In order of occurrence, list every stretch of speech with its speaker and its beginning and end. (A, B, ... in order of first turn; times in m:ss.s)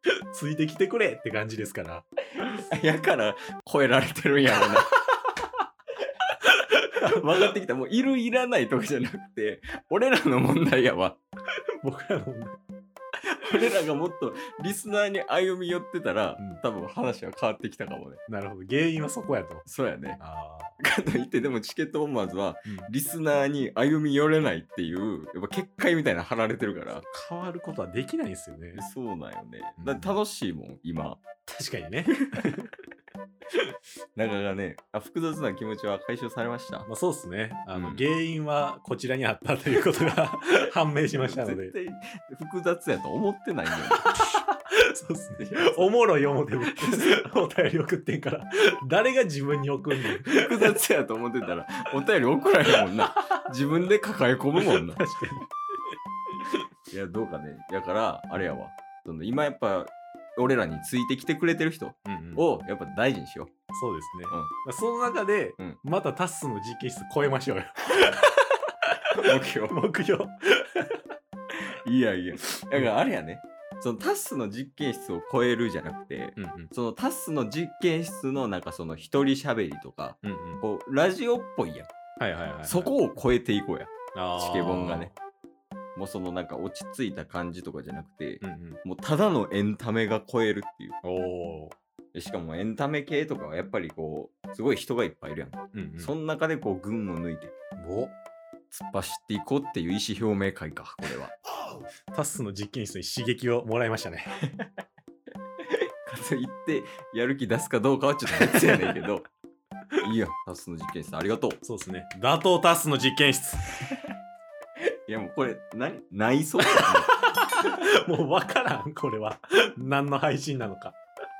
0:00.3-0:02.0 A
0:02.4-0:05.0 B
0:07.0-0:07.5 A
0:07.0-0:11.2 B
0:11.8-0:12.6 A
0:13.4-0:18.2 B
0:18.3-0:19.7 A
0:19.7-0:20.2 B
0:20.2-0:20.8 A
0:20.8-0:27.0 B
0:27.1-0:28.8 A
0:28.8-0:31.2 B
0:29.8-0:30.2 A
0:31.5-0:32.7 A
0:34.2-0:36.9 B
0:36.9-0:41.7 A
0:37.7-0:38.0 B
0:41.1-0:44.1 B
0:44.2-0:50.8 A
0:45.4-0:45.9 B
0:46.6-0:47.2 B
0:50.0-0:55.0 B
0:53.1-0:53.3 A
0:54.6-0:55.5 A
0:56.9-1:03.5 B
1:02.1-1:02.4 A
1:03.7-1:08.6 A
1:09.2-1:09.8 B
1:09.7-1:11.0 A
1:11.8-1:21.9 B
1:16.4-1:16.7 A
1:20.2-1:20.6 A
1:22.2-1:22.9 A
1:22.7-1:25.1 B
1:24.1-1:25.2 A
1:26.0-1:31.0 B
1:28.4-1:28.8 A
1:31.0-1:31.8 A
1:32.1-1:37.5 B
1:35.7-1:36.1 A
1:37.8-1:38.1 A
1:38.7-1:41.3 B
1:42.1-1:44.4 A
1:45.6-1:49.3 B
1:48.4-1:49.0 A
1:50.0-1:51.6 B
1:51.6-1:53.7 A
1:55.1-1:57.1 B
1:57.6-2:01.0 A